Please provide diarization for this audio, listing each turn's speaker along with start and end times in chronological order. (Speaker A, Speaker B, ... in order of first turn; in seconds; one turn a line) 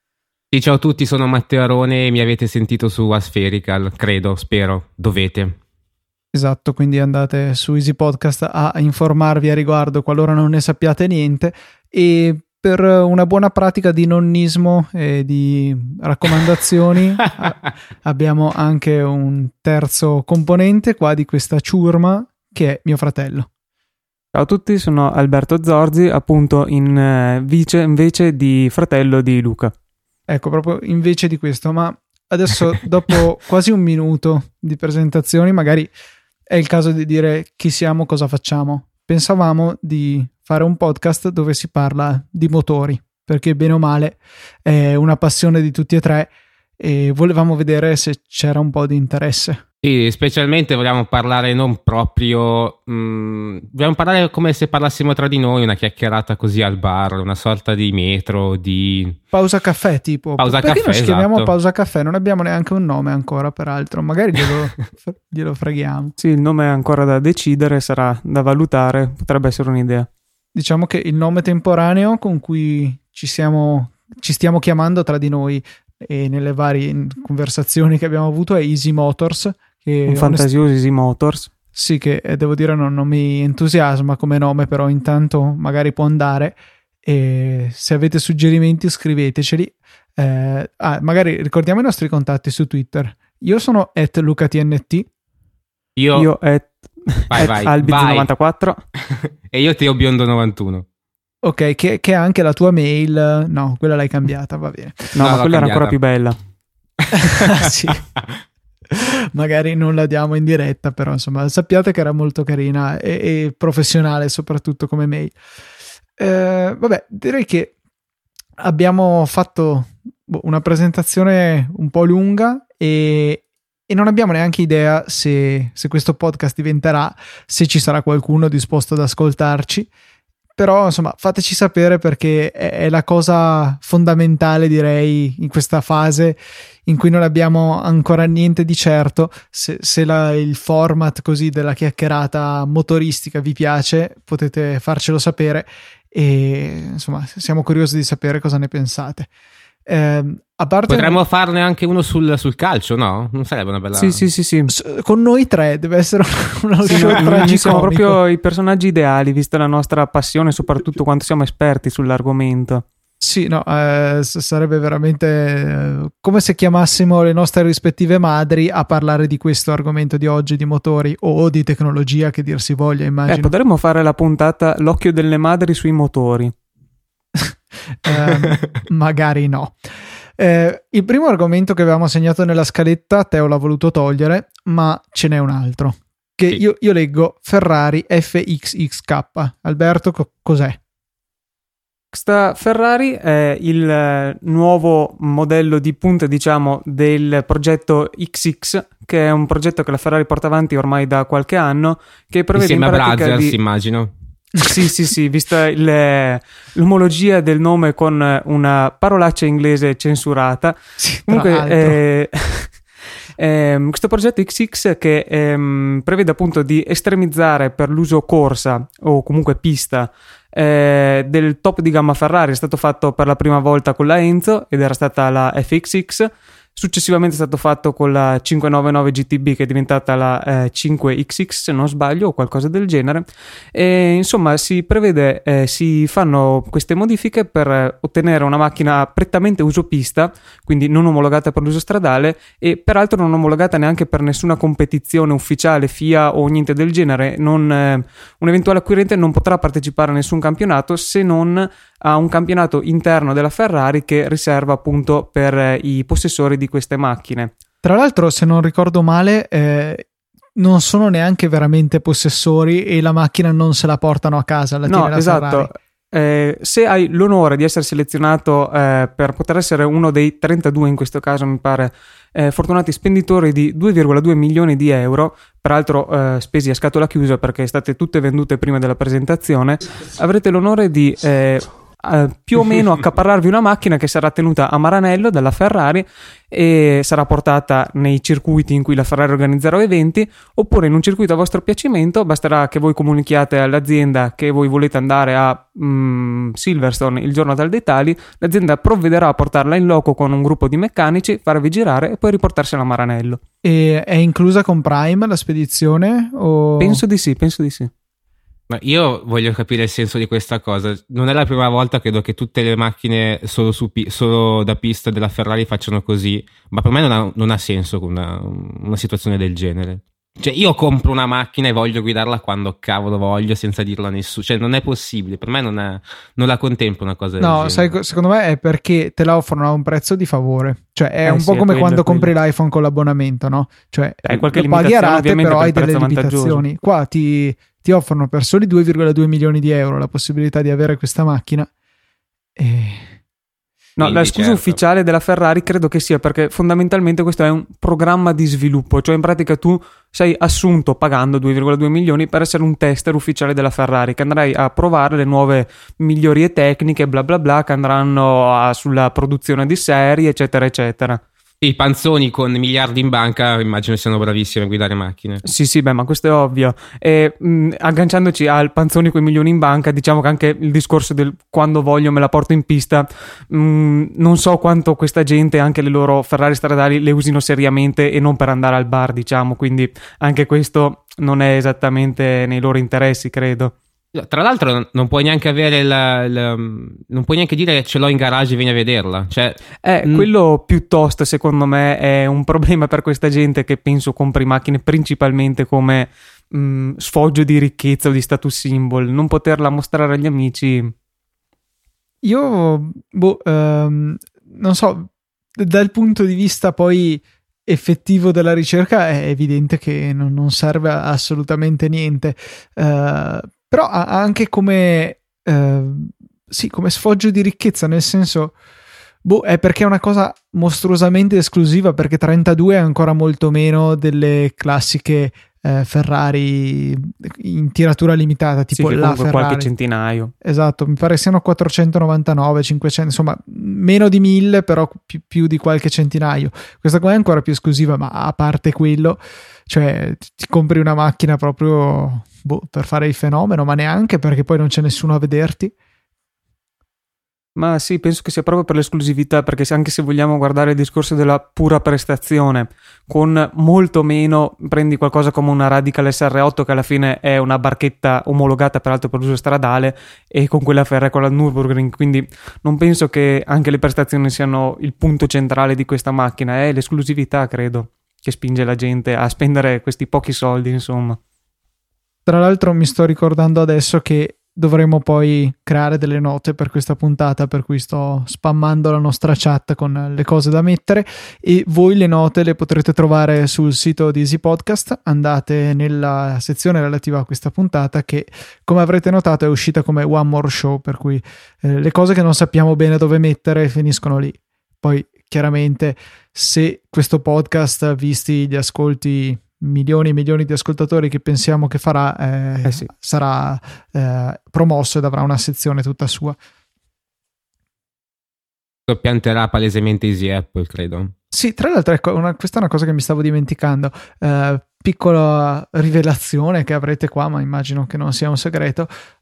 Speaker A: 0.5-5.5
Speaker B: 6.3-23.5
Speaker C: 24.3-29.7
Speaker B: 30.3-35.9
Speaker B: 36.5-49.6
Speaker A: 49.8-59.2
Speaker B: 59.3-66.1
Speaker A: 60.4-61.5
Speaker C: 66.2-70.1
Speaker B: 70.5-80.5
Speaker C: 80.1-81.5
Speaker B: 81.7-95.1
Speaker A: 96.0-96.3
Speaker C: 96.1-98.8
Speaker A: 97.3-98.3
Speaker A: 99.1-100.8
Speaker B: 101.4-105.1
Speaker C: 105.1-106.4
Speaker A: 105.2-106.0
Speaker B: 107.2-108.0
Speaker B: 108.9-115.3
Speaker B: 116.2-117.7
Speaker B: 118.6-129.9
Speaker B: 130.6-149.3
Speaker B: 149.8-151.2
Speaker A: 150.9-154.2
Speaker C: 153.9-154.7
Speaker B: 154.7-158.2
Speaker C: 156.8-162.8
Speaker B: 163.2-173.5
Speaker C: 173.3-176.5
Speaker B: 177.3-179.8
Speaker B: 180.4-190.8
Speaker C: 192.1-203.6
Speaker A: 202.5-204.1
Speaker C: 204.6-212.8
Speaker B: 211.0-212.0
Speaker C: 213.4-257.5
Speaker B: 257.8-260.0
Speaker B: 260.6-265.7
Speaker C: 264.9-303.4
Speaker B: 303.6-307.0
Speaker C: 306.8-307.9
Speaker A: 308.7-327.9
Speaker B: 327.4-341.7
Speaker C: 331.2-332.3
Speaker C: 334.2-336.6
Speaker B: 342.6-343.2
Speaker C: 344.0-361.2
Speaker A: 344.0-344.8
Speaker A: 361.6-365.4
Speaker C: 365.4-383.7
Speaker A: 384.1-390.3
Speaker C: 389.8-400.9
Speaker B: 402.2-418.5
Speaker B: 419.2-429.7
Speaker C: 428.7-430.3
Speaker B: 430.4-445.7
Speaker C: 447.6-471.2
Speaker B: 472.2-506.4
Speaker A: 508.9-511.1
Speaker B: 511.3-518.9